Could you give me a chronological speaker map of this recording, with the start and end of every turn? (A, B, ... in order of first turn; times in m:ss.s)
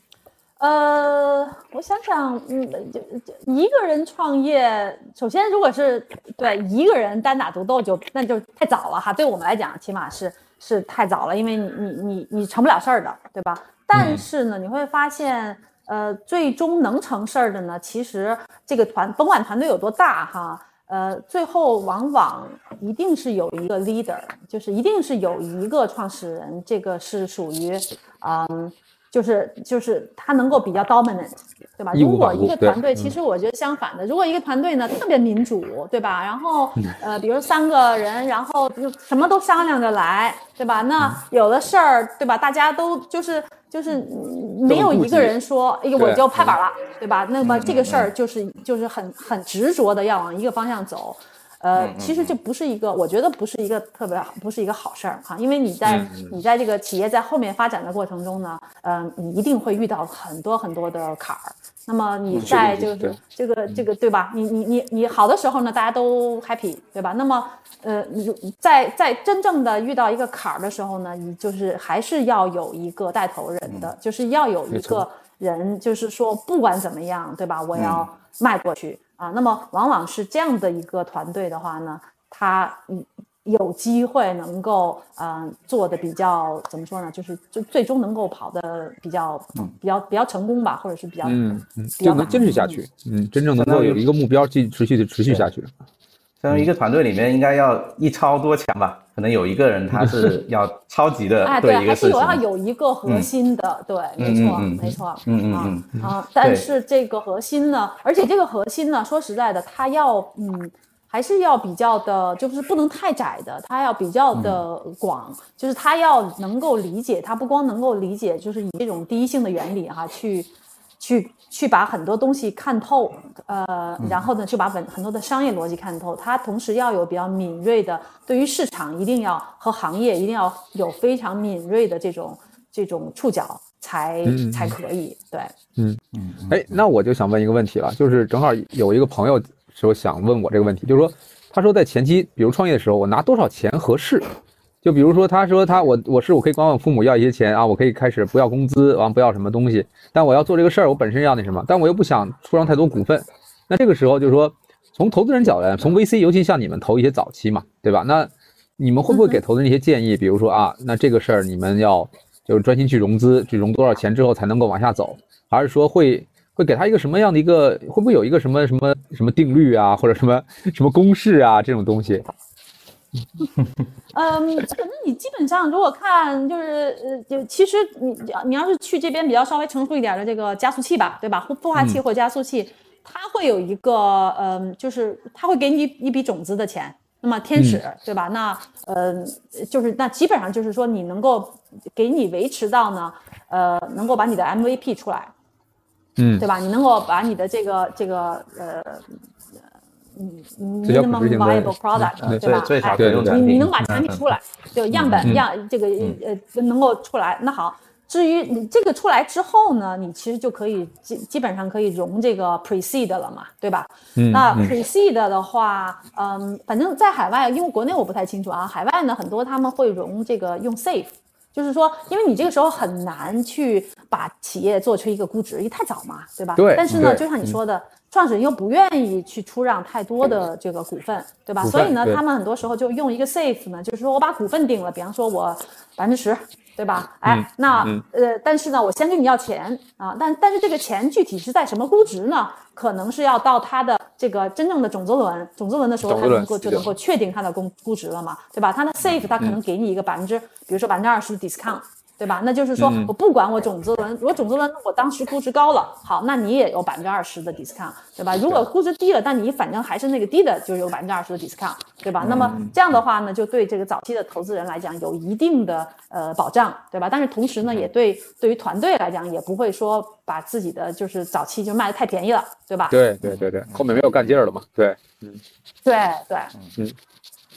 0:00.6-1:32.8 A
0:31.9-0:33.1 B
0:44.7-0:45.3 B
0:46.0-0:46.5 B
0:47.4-0:48.1 C
0:51.8-0:52.4 C
0:55.9-0:56.3 C
1:02.3-1:03.2 B
1:14.7-1:15.0 B
1:17.8-1:18.1 C
1:31.2-1:35.7 B
1:33.6-1:34.0 C
1:36.4-1:42.4 C
1:41.4-2:15.6 A
1:44.2-1:46.6 C
1:54.3-1:54.6 C
2:04.0-2:04.3 C
2:14.3-2:14.8 B
2:15.8-2:24.3 B
2:16.2-2:16.6 C
2:24.8-2:52.3 B
2:39.1-2:39.4 A
2:54.1-3:15.3 A
3:16.2-3:16.4 B
3:16.4-3:19.1 A
3:20.2-4:33.0 A
3:20.8-3:23.7 B
3:22.2-3:24.2 C
3:24.9-3:25.4 C
3:34.2-3:34.7 B
3:46.6-3:47.6 B
3:51.6-3:52.2 B
3:57.2-3:58.0 B
4:06.0-4:06.8 B
4:12.8-4:13.1 B
4:22.2-4:22.7 C
4:22.3-4:22.7 B
4:32.9-4:35.4 B
4:33.2-4:34.0 C
4:35.8-4:36.5 A